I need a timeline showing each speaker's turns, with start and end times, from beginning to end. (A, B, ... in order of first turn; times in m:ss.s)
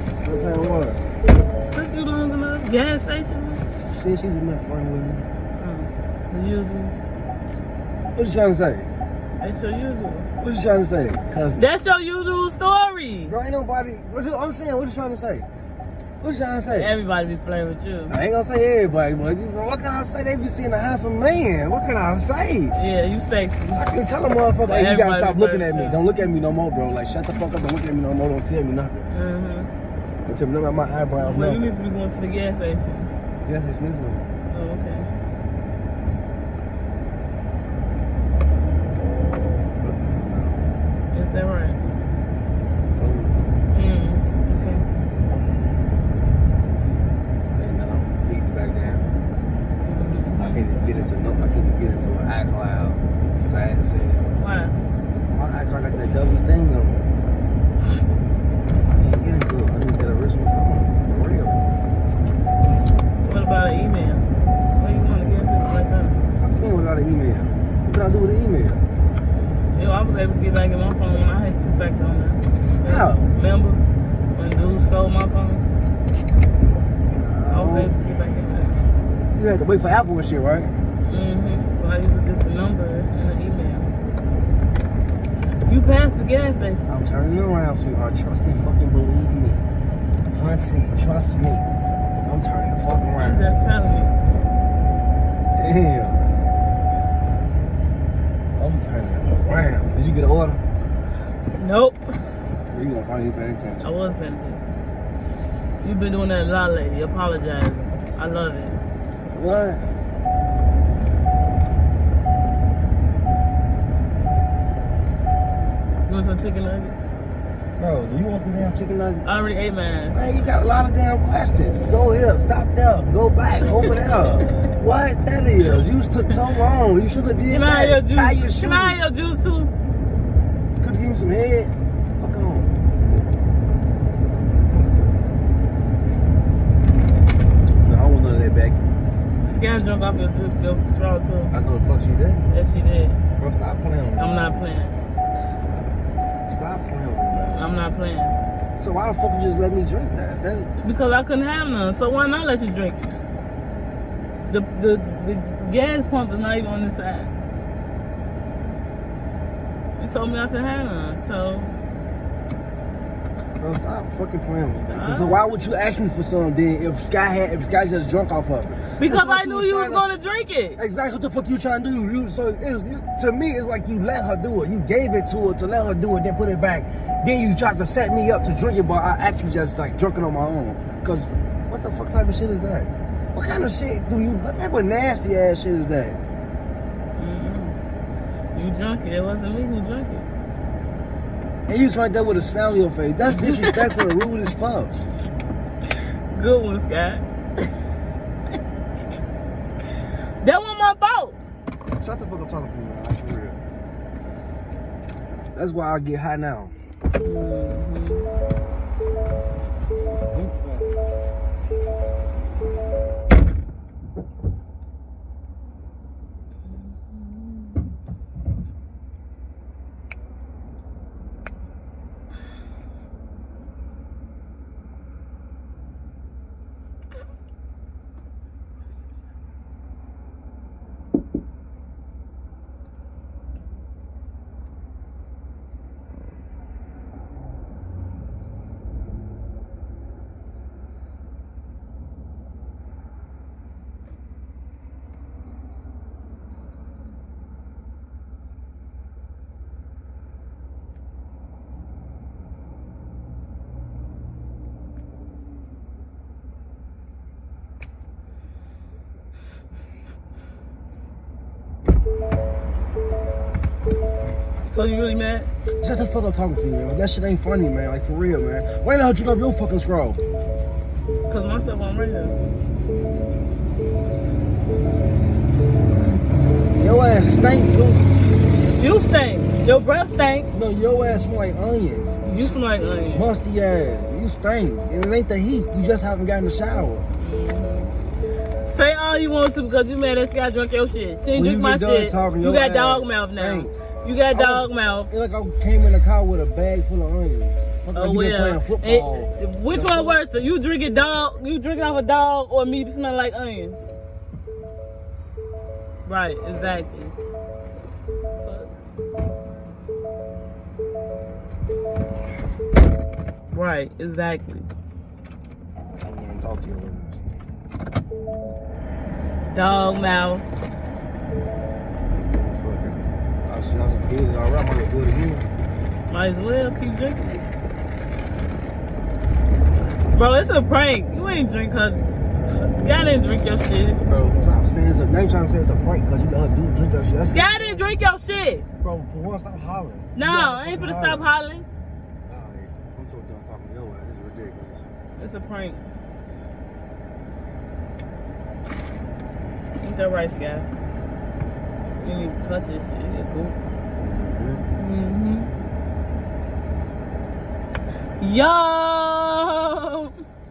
0:00.2-0:01.0 A
0:01.7-0:03.6 B
0:03.9-0:05.2 A
0:05.6-0:07.0 B
0:08.2-0:08.9 A
0:09.4-0:10.3 B
0:10.4-0:11.6 A
0:11.6-0:13.4 B
0:13.3-0:15.5 A
0:16.2-0:16.9 A
0:16.8-0:18.2 B
0:18.1-0:22.8 A
0:22.8-0:23.8 B
0:23.7-0:29.1 A
0:24.7-0:26.0 B
0:29.1-0:29.7 B
0:30.3-0:31.7 A
0:31.2-0:33.1 B
0:33.4-0:34.3 A
0:34.5-0:35.1 B
0:39.8-0:40.6 A
0:41.1-0:41.8 B
0:42.9-0:43.6 A
0:43.7-0:44.9 B
0:47.5-0:49.1 A
0:49.8-0:50.6 B
0:50.4-0:54.3 A
0:54.4-0:54.8 B
0:55.3-0:57.2 A
0:58.9-1:01.7 A
1:03.2-1:06.2 B
1:06.4-1:08.8 A
1:09.7-1:13.8 B
1:12.8-1:13.3 A
1:14.3-1:15.6 B
1:17.1-1:17.9 A
1:17.5-1:18.8 B
1:19.3-1:20.8 A
1:21.0-1:23.9 B
1:25.7-1:26.9 B
1:26.9-1:29.6 A
1:30.3-1:31.7 A
1:32.2-1:33.5 A
1:33.2-1:34.1 B
1:35.6-1:36.3 A
1:38.6-1:40.6 A
1:41.6-1:42.2 B
1:42.7-1:43.9 A
1:43.8-1:44.7 B
1:45.8-1:48.8 B
1:49.3-1:49.9 A
1:56.1-1:57.0 B
1:57.8-1:59.3 A
1:59.2-2:00.2 B
2:00.1-2:09.0 A
2:07.4-2:09.7 B
2:10.8-2:12.8 A
2:17.8-2:18.8 A
2:19.4-2:21.6 B
2:21.5-2:22.5 A
2:22.5-2:23.2 B
2:23.4-2:24.5 A
2:24.2-2:25.0 B
2:26.5-2:27.7 A
2:27.5-2:28.4 B
2:28.8-2:30.7 A
2:30.8-2:33.1 B
2:34.5-2:37.3 B
2:40.0-2:41.8 B
2:43.6-2:50.0 A
2:44.9-2:45.7 B
2:49.0-2:50.8 B
2:50.8-3:06.2 A
3:07.2-3:07.8 B
3:08.6-3:10.3 B
3:11.7-3:15.0 A
3:16.3-3:17.2 B
3:20.4-3:21.4 B
3:22.0-3:23.6 A
3:25.6-3:26.7 A
3:27.2-3:28.3 B
3:30.3-3:30.8 A
3:36.8-3:37.8 B
4:24.7-4:25.5 B
4:25.8-4:30.2 A
4:31.3-4:32.4 B
4:36.8-4:38.0 A
4:38.7-4:40.5 B
4:40.5-4:47.1 A
4:42.3-4:43.3 B
4:47.2-4:47.9 B
4:48.6-4:55.1 B
4:51.3-4:53.8 A
4:54.3-5:00.2 A
4:57.9-5:03.8 B
5:06.1-5:07.2 B
5:08.4-5:08.7 B
5:13.5-5:14.7 B
5:16.0-5:17.2 A
5:19.5-5:20.4 B
5:22.3-5:25.5 A
5:26.1-5:27.4 B
5:30.1-5:34.0 B
5:34.0-5:37.9 A
5:37.2-5:38.7 B
5:38.8-5:41.3 A
5:40.2-5:41.6 B
5:42.3-5:44.9 A
5:45.2-5:45.8 B
5:49.8-5:50.7 B
5:52.0-5:53.6 B
5:54.0-5:54.7 A
5:54.8-5:55.5 B
5:58.2-6:00.2 B